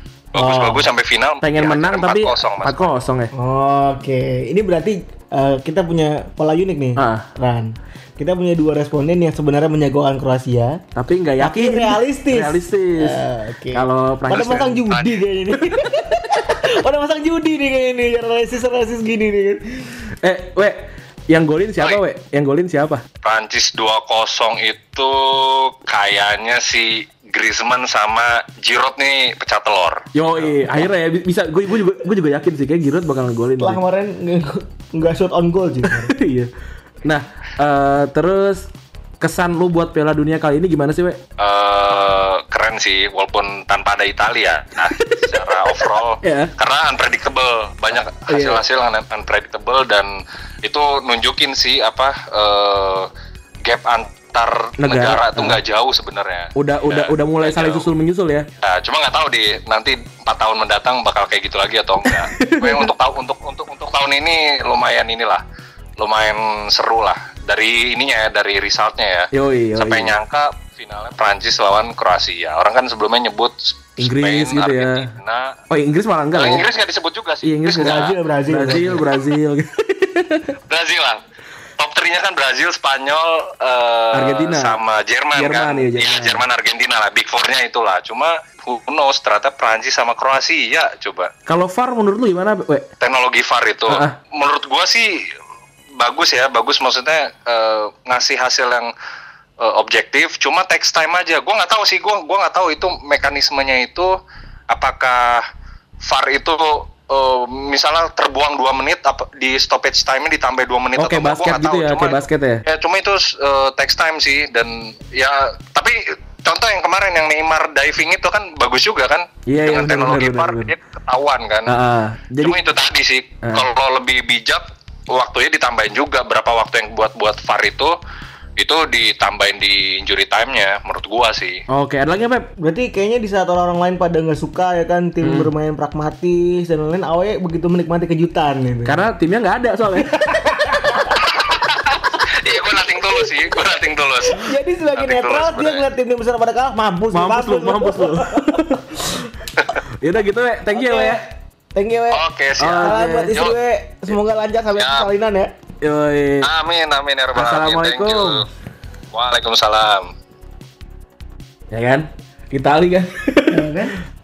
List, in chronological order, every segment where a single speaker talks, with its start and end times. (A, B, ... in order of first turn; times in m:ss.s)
0:00.3-0:02.9 A
0:00.4-0:00.9 B
0:01.4-0:03.3 C
0:03.3-0:10.8 B
0:07.0-0:07.3 C
0:10.9-0:14.8 C
0:11.4-0:20.1 B
0:14.3-0:15.3 A
0:15.6-0:15.9 C
0:20.2-0:23.0 C
0:23.2-0:30.0 A
0:30.1-0:33.8 C
0:33.6-0:36.1 B
0:35.9-0:36.5 C
0:37.0-0:41.2 C
0:41.4-0:53.1 A
0:46.2-0:46.5 C
0:48.3-0:48.6 C
0:53.6-0:57.8 A
0:54.8-0:55.6 C
0:56.6-0:58.5 C
0:58.6-1:05.4 A
1:02.0-1:02.9 C
1:06.0-1:15.6 A
1:09.3-1:10.1 C
1:14.0-1:15.1 C
1:15.7-1:16.6 C
1:16.3-1:18.1 A
1:17.4-1:20.5 C
1:17.8-1:19.0 B
1:20.7-1:21.2 A
1:21.8-1:31.3 A
1:24.1-1:24.8 C
1:25.3-1:26.4 C
1:31.4-1:32.9 C
1:33.0-1:35.2 A
1:33.9-1:34.2 C
1:36.0-1:38.9 A
1:39.6-1:44.2 A
1:44.7-1:45.4 A
1:46.0-2:01.7 A
1:50.9-1:52.6 C
1:59.5-2:00.7 C
2:01.6-2:02.6 C
2:02.4-2:08.0 A
2:03.4-2:03.7 C
2:08.6-2:11.6 A
2:11.7-2:12.5 C
2:12.6-2:19.0 B
2:15.2-2:15.5 C
2:18.8-2:20.2 C
2:20.1-2:21.4 B
2:22.2-2:25.8 A
2:24.3-2:29.3 B
2:27.1-2:28.8 C
2:29.7-2:31.2 C
2:30.7-2:35.5 B
2:32.1-2:33.6 A
2:32.6-2:33.4 C
2:34.7-2:35.1 A
2:35.8-2:36.5 C
2:36.4-2:38.4 A
2:37.3-2:38.5 C
2:39.1-2:40.1 A
2:41.7-2:43.8 C
2:43.5-2:44.0 B